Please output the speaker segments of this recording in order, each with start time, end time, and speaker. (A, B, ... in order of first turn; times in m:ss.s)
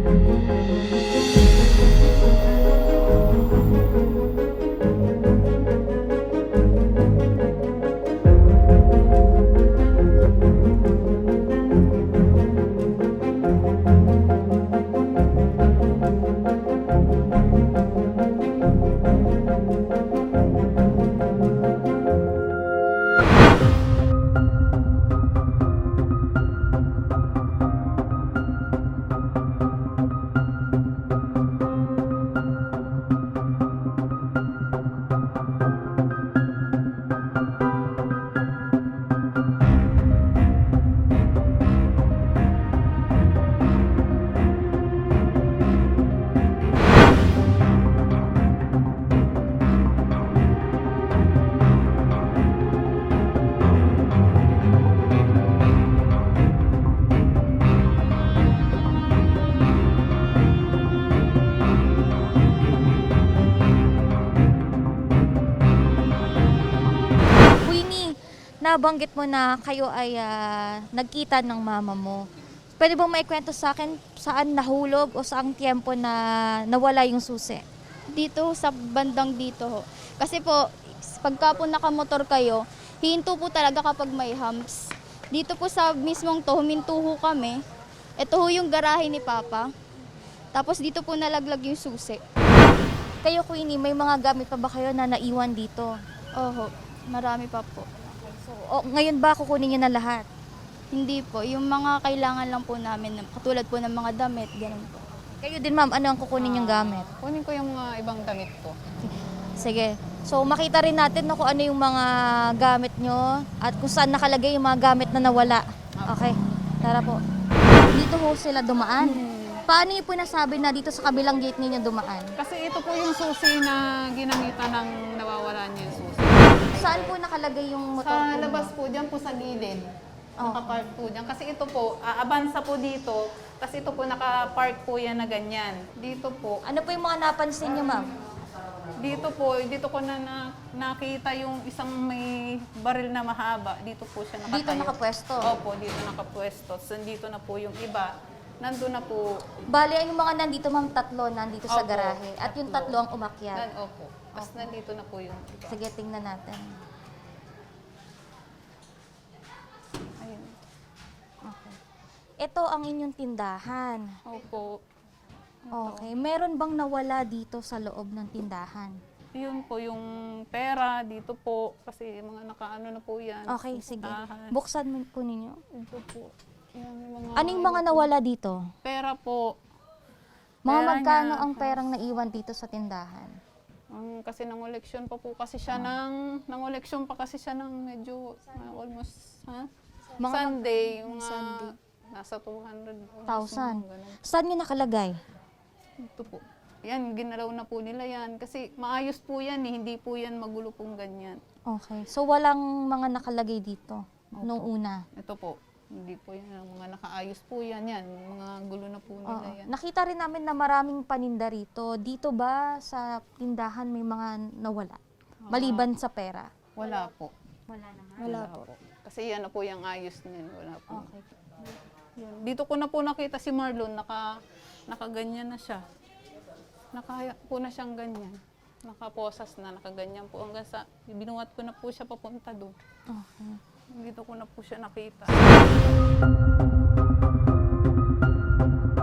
1:07.6-1:08.1 A
1:08.6-1:12.2 A
1:12.8-1:17.6 A
1:18.1-1:20.6 B
1:21.2-1:24.8 B
1:25.3-1:27.6 B
1:28.2-1:29.7 B
1:30.5-1:32.2 B
1:33.2-1:35.9 A
1:36.4-1:38.1 B
1:38.4-1:40.3 A
1:40.9-1:45.0 B
1:45.4-1:47.1 A
1:46.4-1:48.7 C
1:49.6-1:57.2 A
1:56.0-1:56.3 C
1:57.9-2:02.3 A
1:59.0-1:59.6 C
2:02.4-2:07.1 C
2:06.8-2:08.7 A
2:08.0-2:09.8 C
2:10.4-2:10.9 A
2:10.4-2:16.6 C
2:16.6-2:18.1 A
2:19.0-2:29.2 C
2:24.5-2:25.5 A
2:29.7-2:33.7 A
2:31.7-2:35.8 C
2:34.4-2:34.7 A
2:35.7-2:36.6 A
2:40.2-2:40.5 C
2:41.4-2:41.8 A
2:42.4-2:44.0 A
2:44.3-2:44.7 C
2:45.7-2:46.1 C
2:45.7-2:48.9 A
2:49.4-2:54.6 C
2:53.5-2:55.6 A
2:55.8-2:58.1 C
2:57.4-2:58.6 A
2:58.8-2:59.4 C
3:00.6-3:03.3 A
3:00.7-3:01.8 C
3:03.9-3:09.7 C
3:10.2-3:11.6 A
3:10.2-3:14.2 C
3:13.3-3:15.2 A
3:16.0-3:21.4 C
3:21.7-3:25.0 A
3:24.4-3:29.6 C
3:29.3-3:35.0 A
3:35.5-3:35.9 C
3:35.5-3:36.5 A
3:36.8-3:37.3 C
3:37.7-3:38.4 A
3:38.2-3:41.1 C
3:40.9-3:41.2 A
3:42.2-3:44.2 C
3:44.9-3:45.8 C
3:46.9-3:52.8 C
3:53.1-3:53.6 A
3:54.0-3:55.6 C